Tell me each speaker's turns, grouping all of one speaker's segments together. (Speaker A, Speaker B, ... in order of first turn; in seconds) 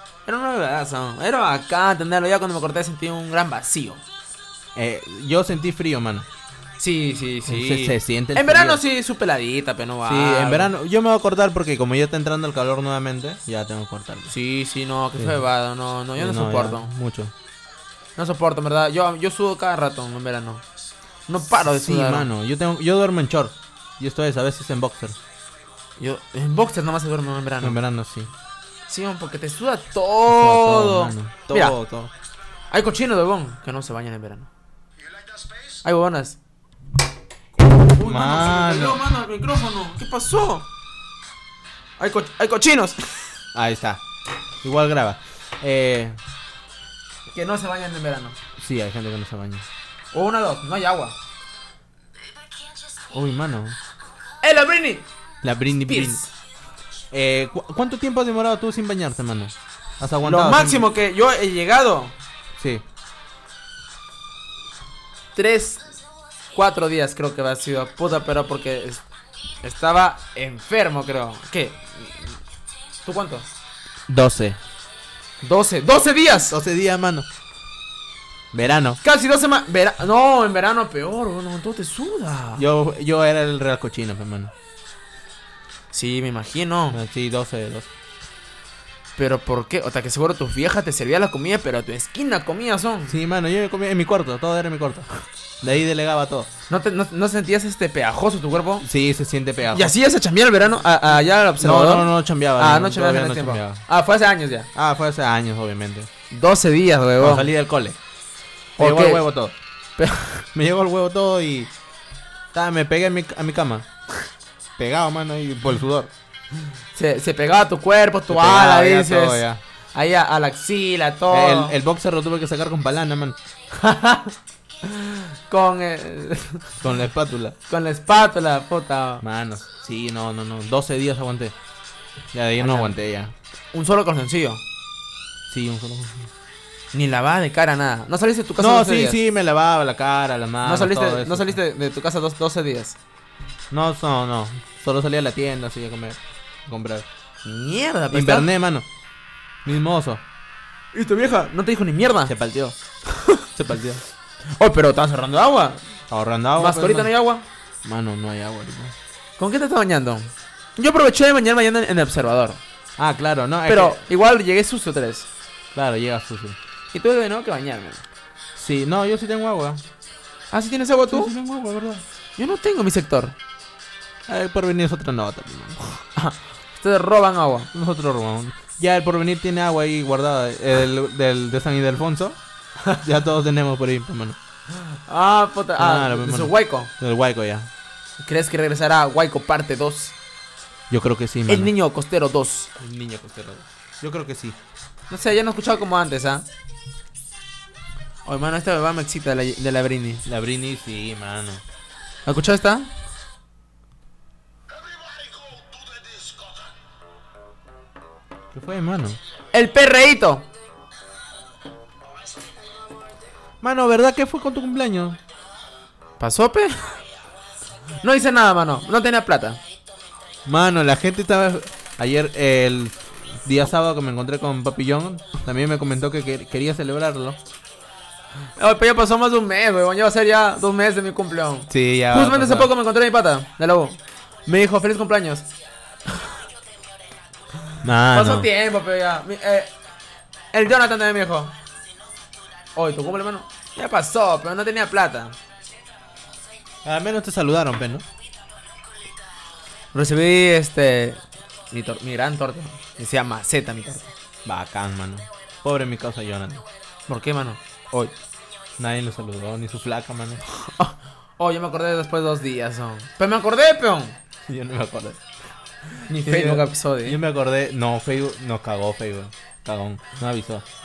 Speaker A: 0.2-4.0, 6.8-10.7, 14.3-16.9, 18.2-20.6, 21.3-22.3, 26.0-27.8, 28.9-31.8, 32.7-34.5, 35.8-36.4, 37.6-40.7, 42.0-43.3, 47.3-48.4, 50.1-51.1, 54.4-55.1, 55.9-56.3, 60.2-62.1, 65.3-65.8, 66.5-69.0, 69.6-72.4, 73.0-73.5, 75.4-76.5, 79.0-82.6, 85.9-87.0, 89.2-93.1, 96.7-98.8, 99.7-104.7, 106.3-107.5, 108.8-109.2, 110.0-110.5, 116.9-121.7, 123.7-126.7, 127.7-129.2, 132.6-132.9, 133.7-134.6, 136.9-139.2, 140.6-143.0, 147.4-148.5, 150.9-152.3, 153.1-153.6, 154.6-155.8, 156.6-157.4, 159.4-162.6, 163.7-165.3, 166.9-168.0, 170.5-171.3, 172.4-173.3, 176.2-177.7, 184.7-186.9, 188.2-190.1, 191.5-192.7, 195.1-196.4, 198.2-200.2, 202.2-202.9, 209.5-210.4, 216.2-217.0, 218.0-219.6, 228.6-235.4, 238.1-239.7, 240.5-241.5, 242.8-245.3, 249.9-254.1, 257.1-258.1, 260.5-264.2, 266.1-267.2
Speaker B: 4.7-6.3, 7.5-8.8, 10.0-14.3, 15.2-15.4, 16.2-17.3, 21.6-25.2, 27.6-28.3, 30.3-32.1, 38.0-39.0, 43.5-44.0, 44.6-46.2, 48.6-49.6, 53.1-53.8, 55.4-56.2, 57.1-60.9, 62.6-62.8, 74.1-74.6, 76.5-77.3, 78.5-79.0, 82.6-84.5, 86.9-87.9, 93.1-95.1, 95.6-96.5, 98.8-99.9, 101.6-103.8, 104.7-106.1, 107.2-108.0, 108.8-109.5, 110.5-111.7, 112.5-113.9, 114.8-116.1, 118.3-119.6, 121.3-123.4, 126.8-127.5, 129.2-131.5, 132.3-133.3, 135.5-136.3, 138.6-141.6, 143.7-147.1, 148.1-148.8, 149.6-150.2, 152.3-152.7, 153.6-154.0, 156.1-157.1, 157.8-158.9, 163.0-164.0, 165.7-166.6, 168.5-169.8, 171.1-172.0, 174.3-176.0, 177.7-182.4, 183.0-184.4, 185.8-187.7, 190.9-191.7, 192.8-194.6, 200.2-201.6, 208.5-209.2, 213.6-215.2, 220.4-227.4, 231.7-232.7, 237.8-238.5, 246.8-248.0, 254.4-256.6, 258.8-260.4, 264.5-265.2, 266.0-270.6